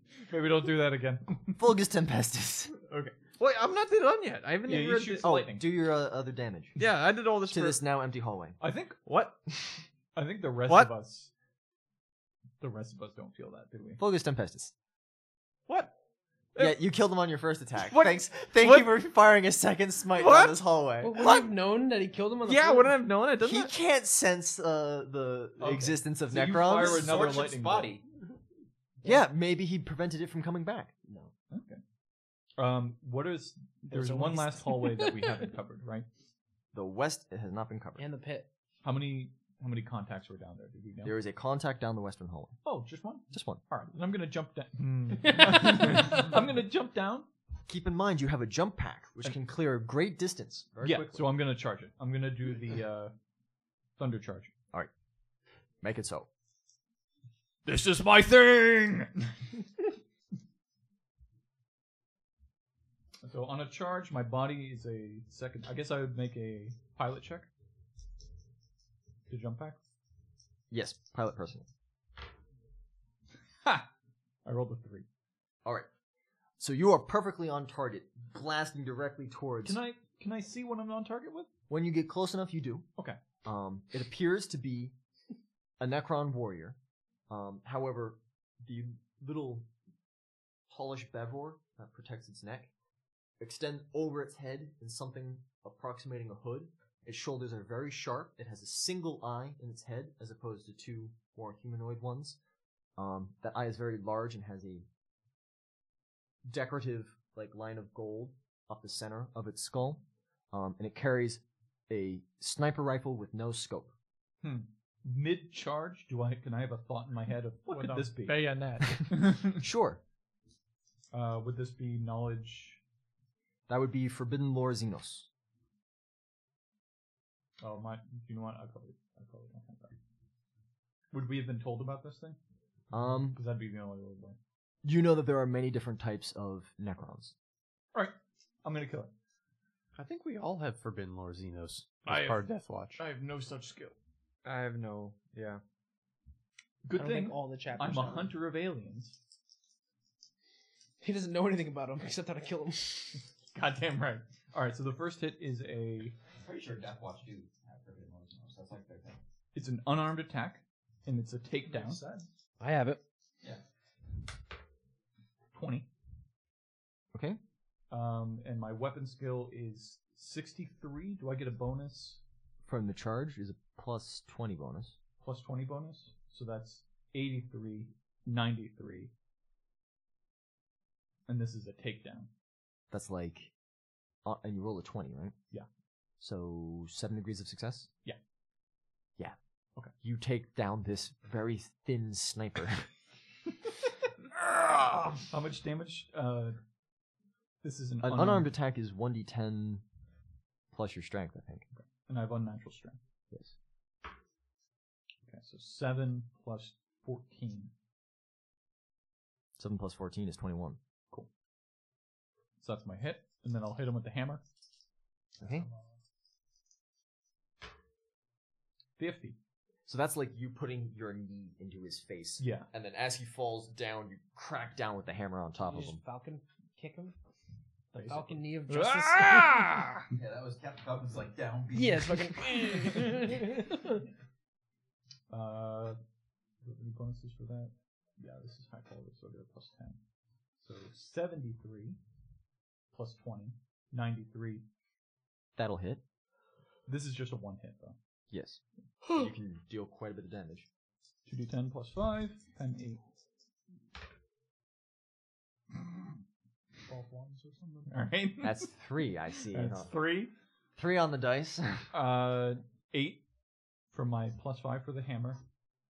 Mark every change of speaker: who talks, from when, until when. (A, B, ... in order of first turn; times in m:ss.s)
0:00.3-0:01.6 A
0:01.6-0:02.7 B
0:02.9-0:03.2 A
0:03.1-0:05.4 C
0:04.6-0:05.6 A
0:04.8-0:06.8 B
0:06.8-0:07.8 C
0:07.5-0:08.6 B
0:08.6-0:09.0 A
0:09.0-0:09.8 C
0:10.1-0:11.3 A
0:10.6-0:10.9 C
0:12.6-0:14.0 A
0:14.0-0:14.7 B
0:16.6-0:21.2 B
0:17.8-0:18.9 C
0:20.1-0:20.6 C
0:21.0-0:23.0 D
0:21.2-0:21.5 C
0:22.4-0:23.7 C
0:23.4-0:27.3 B
0:25.6-0:28.0 A
0:26.8-0:28.0 E
0:29.0-0:30.9 B
0:31.1-0:31.3 D
0:31.5-0:31.8 A
0:32.6-0:36.1 A
0:33.9-0:35.2 D
0:36.7-0:38.0 B
0:38.0-0:38.5 D
0:38.8-0:41.2 A
0:41.0-0:42.6 B
0:42.6-0:47.3 A
0:43.3-0:43.6 B
0:47.7-0:51.2 B
0:50.8-0:53.1 A
0:54.0-0:54.5 A
0:55.8-0:56.3 B
0:57.7-0:59.3 A
1:03.2-1:07.5 A
1:09.3-1:09.8 A
1:10.7-1:11.7 B
1:14.4-1:15.1 A
1:16.6-1:19.8 B
1:19.6-1:21.5 A
1:21.7-1:22.9 B
1:23.4-1:25.0 B
1:25.8-1:26.8 B
1:27.3-1:29.7 B
1:30.7-1:32.7 B
1:33.4-1:42.4 B
1:43.0-1:44.9 B
1:46.5-1:53.9 B
1:54.4-1:59.6 A
1:57.7-1:59.1 F
1:59.6-2:00.0 B
2:01.1-2:02.8 A
2:03.7-2:05.3 B
2:07.6-2:10.0 A
2:11.1-2:12.4 A
2:12.9-2:13.4 B
2:13.0-2:14.4 A
2:14.8-2:17.3 B
2:17.9-2:19.1 A
2:20.0-2:23.0 G
2:22.1-2:22.4 A
2:23.0-2:23.9 F
2:24.4-2:25.6 C
2:26.8-2:29.2 A
2:26.9-2:28.3 D
2:31.0-2:33.2 D
2:33.5-2:36.2 A
2:36.4-2:39.2 E
2:39.5-2:42.0 A
2:41.6-2:42.3 F
2:42.6-2:43.0 D
2:45.5-2:45.9 A
2:47.1-2:47.4 B
2:47.9-2:52.2 A
2:52.7-2:55.0 B
2:55.2-2:59.1 A
3:01.3-3:02.3 A
3:02.9-3:03.5 B
3:04.2-3:05.4 B
3:06.2-3:07.9 B
3:09.9-3:12.9 B
3:15.3-3:16.6 A
3:17.6-3:18.5 A
3:18.0-3:19.8 B
3:20.7-3:21.6 B
3:21.8-3:23.0 A
3:25.3-3:27.7 A
3:29.6-3:30.8 B
3:32.6-3:34.4 A
3:35.4-3:35.7 B
3:35.4-3:35.9 F
3:39.0-3:39.4 A
3:39.9-3:46.0 B
3:42.4-3:42.7 A
3:45.6-3:47.2 D
3:47.9-3:49.9 D
3:47.9-3:50.0 A
3:50.1-3:52.4 E
3:51.7-3:54.0 D
3:55.3-3:56.0 A
3:56.6-4:00.0 A
4:00.6-4:02.0 A
4:02.9-4:04.6 A
4:05.6-4:06.0 B
4:06.9-4:08.0 A
4:08.3-4:10.7 B
4:11.3-4:13.0 A
4:16.9-4:18.1 F
4:17.9-4:18.7 A
4:18.4-4:19.9 B
4:19.5-4:20.3 A
4:20.8-4:21.9 B
4:21.9-4:23.2 A
4:23.9-4:25.4 A